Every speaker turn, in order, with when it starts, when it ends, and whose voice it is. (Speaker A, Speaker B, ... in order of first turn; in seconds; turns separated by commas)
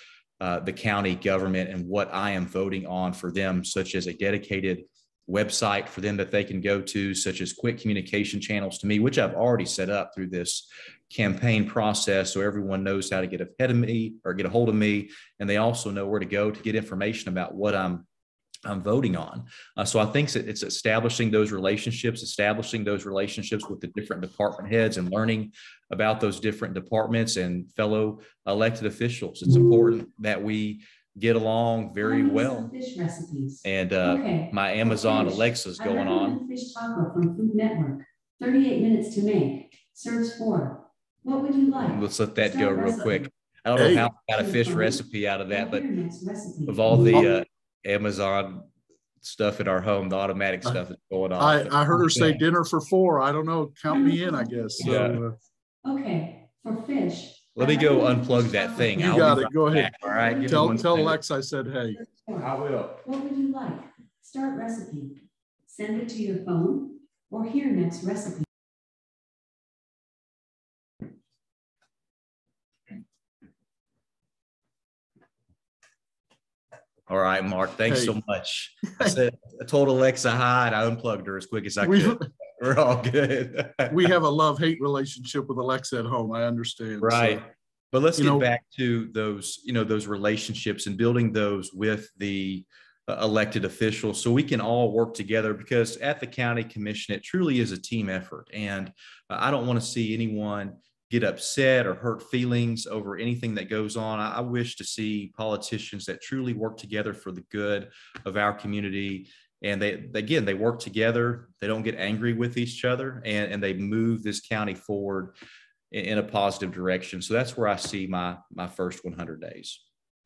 Speaker A: 0.4-18.1, Speaker A: 18.6-32.7, Speaker B: 32.0-43.2, Speaker A: 33.6-36.4, Speaker A: 41.8-45.9, Speaker C: 43.8-44.1, Speaker B: 44.2-47.2, Speaker A: 46.7-48.7, Speaker A: 49.2-52.4, Speaker C: 51.4-55.4, Speaker B: 53.9-54.8, Speaker A: 54.8-55.2, Speaker B: 55.8-61.1, Speaker A: 57.5-61.1, Speaker C: 59.0-62.0, Speaker B: 62.0-62.5, Speaker A: 62.4-63.0, Speaker B: 63.0-68.5, Speaker A: 77.1-84.0, Speaker C: 77.9-78.2, Speaker C: 81.8-82.3, Speaker C: 83.9-87.4, Speaker A: 87.0-115.3, Speaker C: 88.2-88.5, Speaker A: 115.9-119.8